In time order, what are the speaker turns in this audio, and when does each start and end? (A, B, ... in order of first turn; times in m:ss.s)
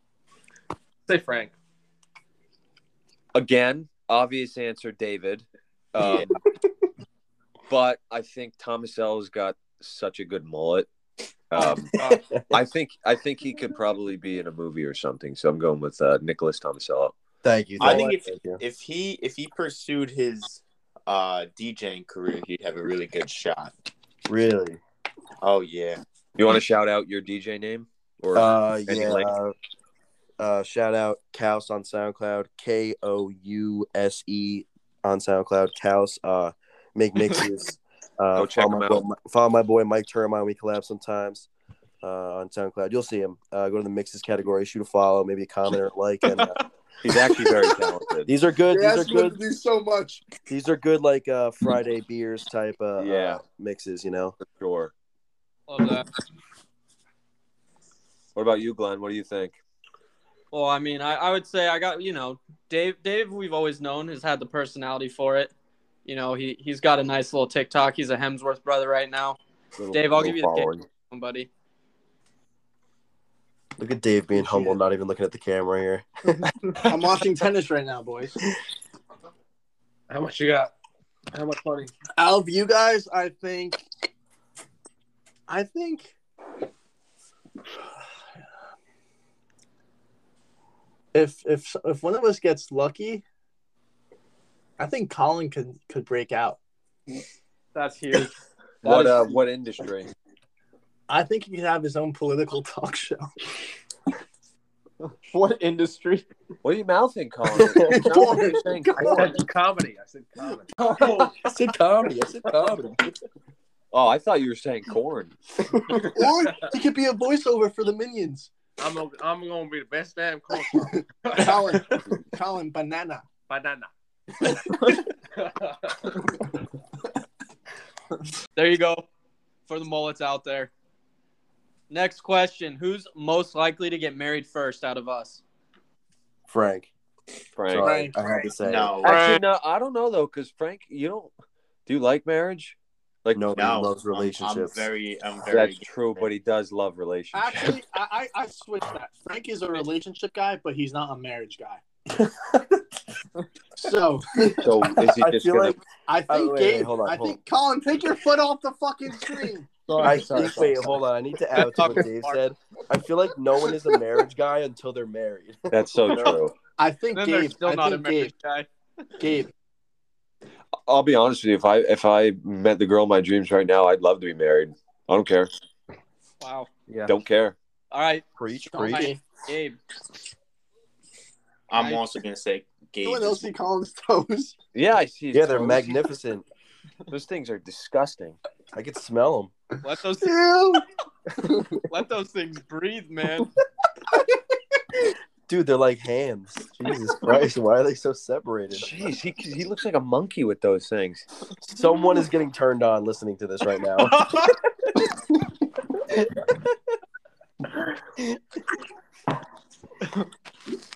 0:01.1-0:01.5 A
0:03.3-0:06.4 B
0:06.0-0:06.3 C
0:07.7-0:10.9 B
0:11.5-0:12.0 B
0:12.0-0:12.6 D
0:12.5-0:17.1 B
0:17.4-0:18.6 D
0:17.8-0:23.8 C
0:24.3-0:24.8 D
0:25.4-0:26.0 C
0:26.4-0:29.3 B
0:28.3-0:29.5 D
0:30.4-0:41.5 D
0:38.4-0:39.0 B
0:42.0-0:46.6 D
0:47.0-0:48.3 B
0:48.3-0:49.4 D
0:48.7-0:50.3 E
0:50.5-0:54.4 D
0:53.0-0:53.4 B
0:54.4-0:54.9 B
0:55.7-0:56.1 F
0:58.4-0:59.6 B
1:00.5-1:05.5 F
1:06.1-1:09.4 F
1:09.8-1:10.8 B
1:09.9-1:11.5 F
1:13.8-1:16.0 D
1:14.4-1:14.7 E
1:16.8-1:18.4 E
1:20.1-1:20.7 A
1:21.3-1:21.9 A
1:22.2-1:23.8 E
1:25.5-1:26.1 E
1:31.1-1:33.2 E
1:34.8-1:36.6 E
1:37.7-1:39.4 F
1:38.8-1:40.1 B
1:41.1-1:43.3 E
1:45.0-1:46.3 F
1:46.6-1:49.4 B
1:47.6-1:49.4 E
1:49.0-1:51.4 A
1:51.4-1:53.0 D
1:52.5-1:52.8 A
1:53.9-1:55.4 B
1:56.0-1:58.5 E
1:58.8-2:01.8 A
2:01.3-2:03.3 E
2:03.5-2:03.9 A
2:05.3-2:06.2 A
2:08.6-2:09.1 F
2:09.7-2:10.7 F
2:11.9-2:15.4 F
2:16.5-2:16.9 D
2:17.6-2:18.1 B
2:17.7-2:19.0 D
2:17.8-2:18.2 E
2:18.6-2:19.2 C
2:19.0-2:19.4 F
2:19.0-2:21.3 B
2:21.9-2:23.5 B
2:23.4-2:24.9 D
2:23.6-2:26.3 C
2:25.5-2:27.8 B
2:27.3-2:32.6 E
2:33.8-2:35.0 E
2:34.6-2:35.8 B
2:35.0-2:37.4 D
2:36.1-2:39.7 E
2:39.9-2:40.9 A
2:40.0-2:46.4 D
2:41.6-2:42.4 F
2:45.7-2:46.5 B
2:46.8-2:48.3 E
2:47.1-2:48.7 F
2:49.2-2:49.5 E
2:50.9-2:55.5 B
2:56.4-2:56.7 F
2:56.9-2:57.1 D
2:57.1-2:57.6 B
2:57.9-2:59.8 F
2:58.4-2:59.1 D
2:58.7-2:59.2 E
3:01.7-3:03.5 C
3:01.8-3:02.0 F
3:03.0-3:04.6 E
3:04.7-3:06.0 B
3:05.3-3:06.4 D
3:07.1-3:08.4 B
3:08.7-3:09.5 D
3:09.8-3:10.4 F
3:10.2-3:10.8 E
3:11.9-3:13.5 F
3:15.5-3:19.1 D
3:18.7-3:21.2 B
3:21.6-3:24.3 D